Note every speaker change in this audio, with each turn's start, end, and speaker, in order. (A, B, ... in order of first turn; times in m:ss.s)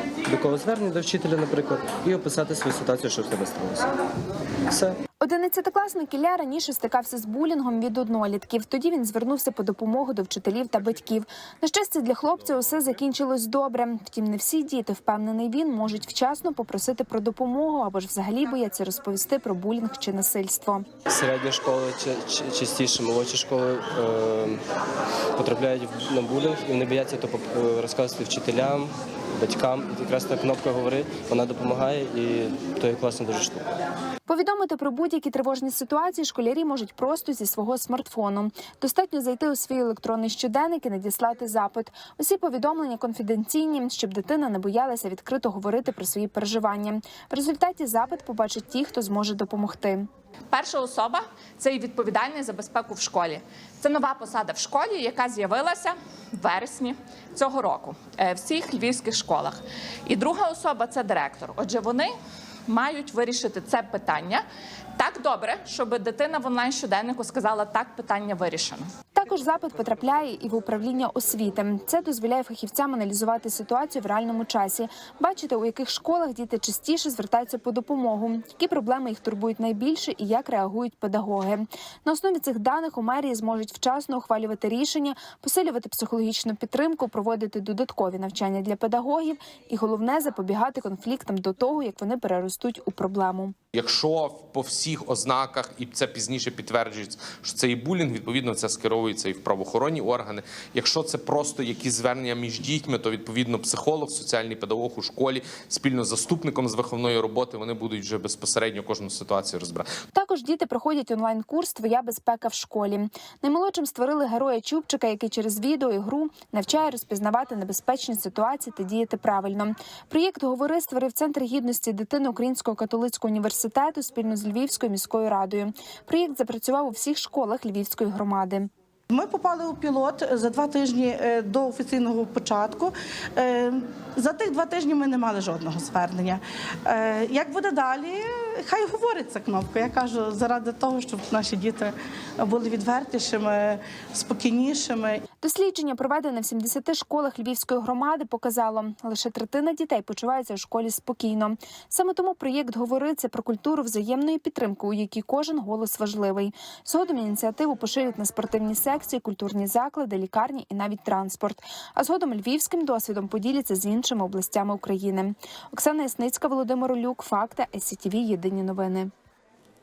0:00.3-0:03.9 A
0:04.7-0:05.0 A
0:05.2-0:20.9 B
0:21.1-0:24.6 A
0:25.4-0:33.7 A
0:34.3-0:50.1 B
0:50.5-1:02.1 C
1:02.7-1:04.4 C
1:05.0-1:08.9 C
1:09.1-1:33.5 B
1:33.7-1:49.9 D
1:50.1-2:08.7 B
2:09.1-2:25.2 E
2:25.4-2:49.1 B